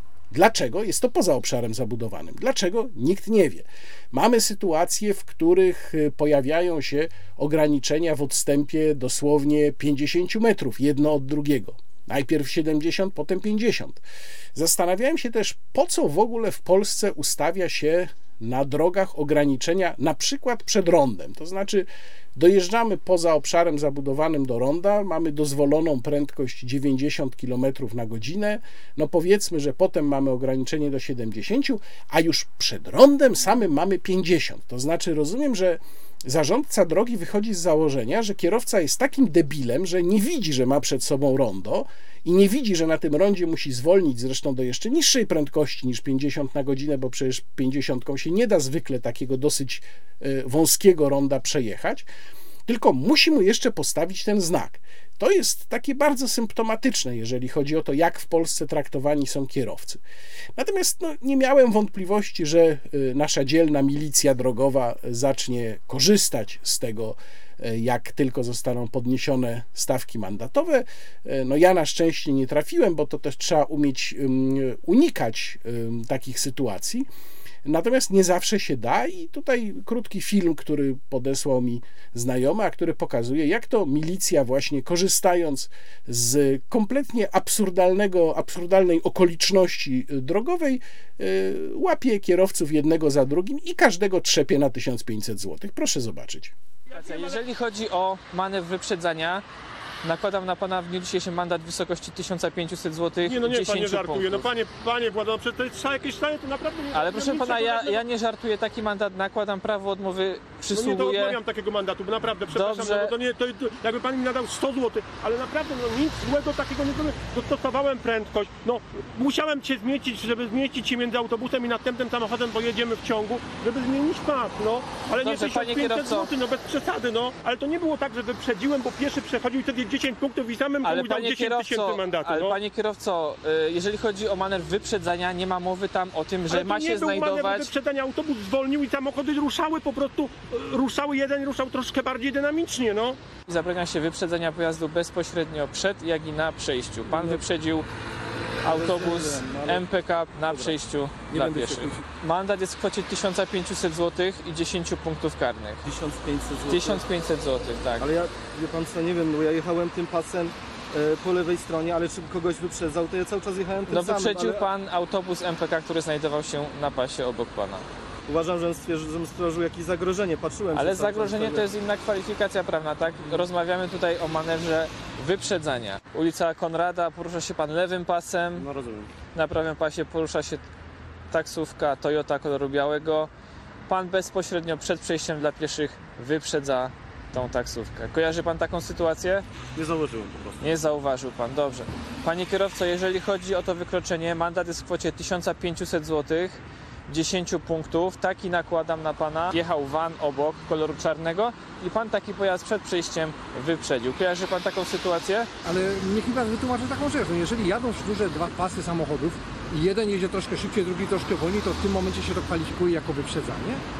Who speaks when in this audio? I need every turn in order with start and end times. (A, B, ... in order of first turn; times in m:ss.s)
0:00.3-0:14.0 A
0:14.5-0:52.1 A
0:52.7-1:00.0 A
1:00.6-1:17.0 A
1:17.6-1:36.5 A
1:36.9-1:39.4 B
1:40.0-1:44.4 B
1:43.2-1:48.0 C
1:46.9-1:51.4 B
1:50.7-2:12.6 C
1:52.5-1:53.1 B
2:05.2-2:06.3 B
2:10.8-2:17.7 B
2:16.5-2:23.2 C
2:23.5-2:27.9 B
2:27.1-2:27.4 D
2:28.6-2:35.8 B
2:28.6-2:29.8 D
2:30.5-2:30.8 D
2:31.3-2:32.0 D
2:35.8-2:37.0 D
2:36.6-2:38.1 B
2:38.0-2:44.6 D
2:43.9-2:47.8 B
2:48.3-2:51.6 D
2:50.7-2:58.6 B
2:58.6-2:59.1 D
2:59.3-3:00.6 B
3:01.3-3:03.3 B
3:03.9-3:09.4 B
3:09.7-3:10.6 D
3:10.6-3:25.5 B
3:25.6-3:33.8 E